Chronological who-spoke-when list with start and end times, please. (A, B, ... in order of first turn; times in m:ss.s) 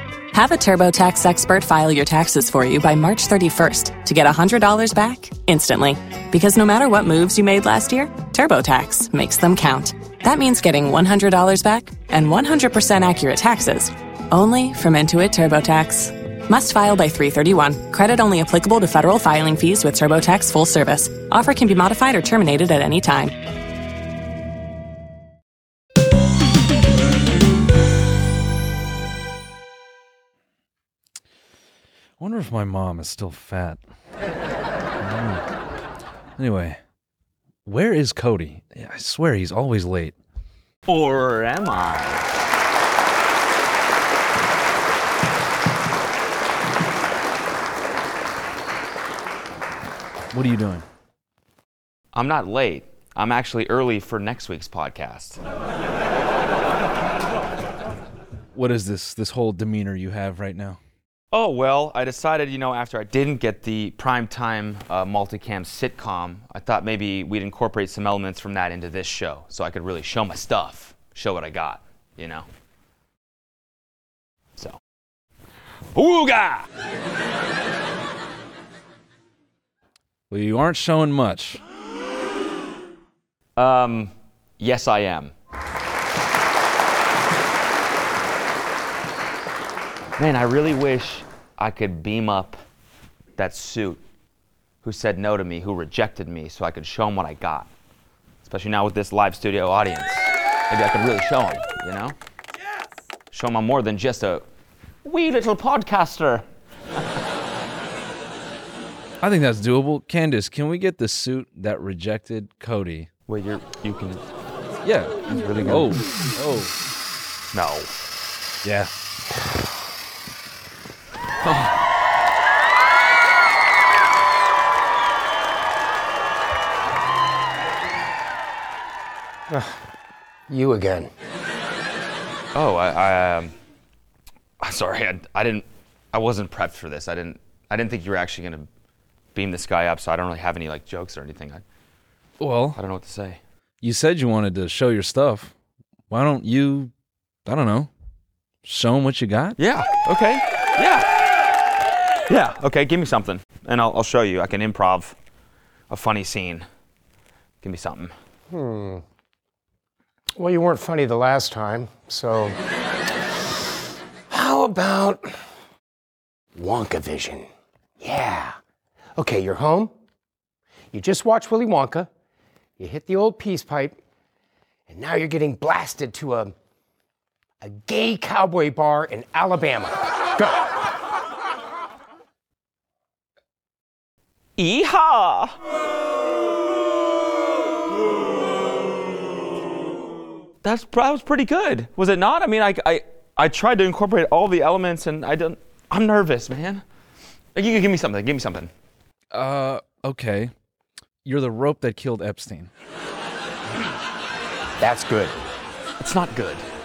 0:00.3-0:23.4 A
0:32.2-0:33.8 B
0:35.0-0:35.4 B
0:36.4-0:36.8 B
0:37.6-0:40.1 B
0:40.9-0:42.3 C
0:50.3-0:50.8 B
0:52.1-0:55.4 C
0:58.5-1:00.8 B
1:01.3-1:12.5 C
1:15.9-1:16.7 C
1:20.3-1:21.6 B
1:23.6-1:25.3 C
1:30.2-1:32.6 C
1:33.4-1:34.0 C
1:34.8-1:37.7 C
1:38.4-1:42.2 C
1:43.3-1:44.4 C
1:45.0-1:46.4 C
1:49.2-1:53.1 B
1:53.3-1:54.2 C
1:54.8-1:56.7 B
1:55.3-1:56.0 C
1:57.5-1:57.9 C
1:58.6-1:58.9 B
2:01.4-2:01.8 C
2:09.5-2:09.8 D
2:10.5-2:11.1 D
2:12.5-2:13.5 C
2:14.6-2:18.7 C
2:19.3-2:21.6 C
2:22.4-2:22.8 B
2:22.7-2:23.4 C
2:23.8-2:25.5 B
2:26.1-2:26.9 B
2:27.4-2:27.9 B
2:28.6-2:29.6 B
2:29.6-2:31.1 C
2:32.3-2:35.1 C
2:35.9-2:36.6 C
2:37.6-2:38.1 C
2:38.5-2:39.0 D
2:40.4-2:42.6 D
2:44.3-2:45.3 D
2:46.5-2:47.5 D
2:48.0-2:48.6 D
2:49.2-2:49.9 D
2:50.9-2:52.1 D
2:52.8-2:54.0 D
2:54.9-2:56.5 D
2:57.6-3:00.7 D
3:04.6-3:05.6 C
3:10.6-3:16.8 C
3:17.5-3:18.7 C
3:19.3-3:20.5 B
3:21.2-3:22.7 B
3:24.8-3:25.5 D
3:26.0-3:26.6 C